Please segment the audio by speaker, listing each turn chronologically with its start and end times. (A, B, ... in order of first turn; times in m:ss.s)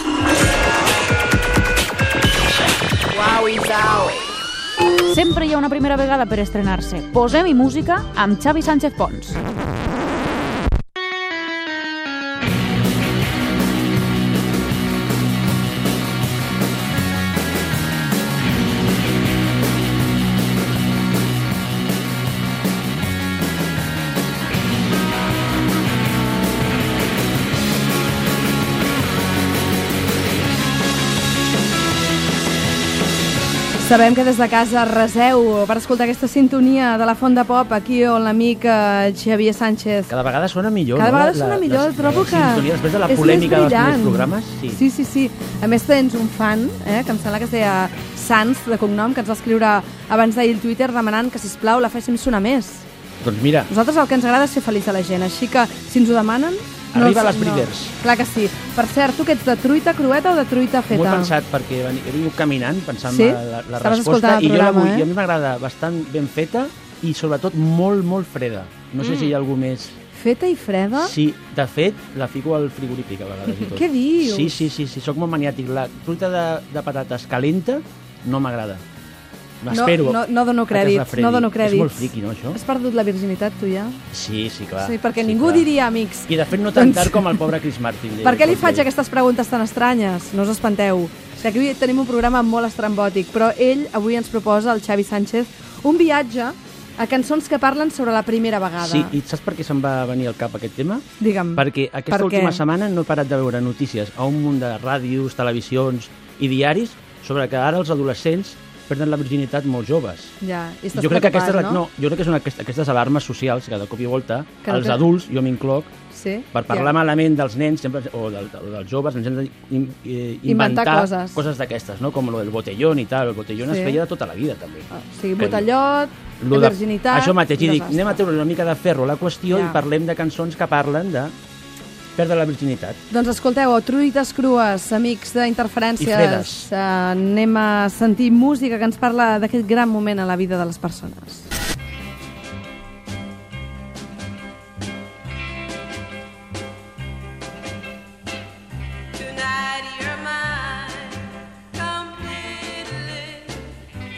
0:03.4-0:03.8 A
0:05.1-0:09.4 A
0:33.8-0:40.1 B
0:40.1-0:44.8 C
0:40.9-0:52.9 B
0:53.2-0:53.7 C
0:53.7-1:01.3 B
0:56.9-0:57.9 C
1:00.9-1:10.0 C
1:03.0-1:05.1 B
1:10.1-1:11.1 B
1:11.0-1:18.8 C
1:13.7-1:14.5 B
1:19.6-1:22.6 C
1:19.7-1:24.0 B
1:24.1-1:25.7 C
1:24.8-1:27.4 B
1:26.2-1:28.9 C
1:28.2-1:39.2 B
1:38.8-1:50.4 C
1:41.2-1:42.6 B
1:50.4-1:51.8 B
1:50.9-1:55.9 C
1:54.6-1:55.0 B
1:56.1-1:56.9 B
1:56.5-2:05.7 C
2:00.4-2:01.4 B
2:03.6-2:04.0 B
2:04.9-2:08.2 B
2:06.4-2:11.3 C
2:09.5-2:09.8 B
2:12.2-2:13.0 C
2:13.1-2:21.5 B
2:16.0-2:16.7 C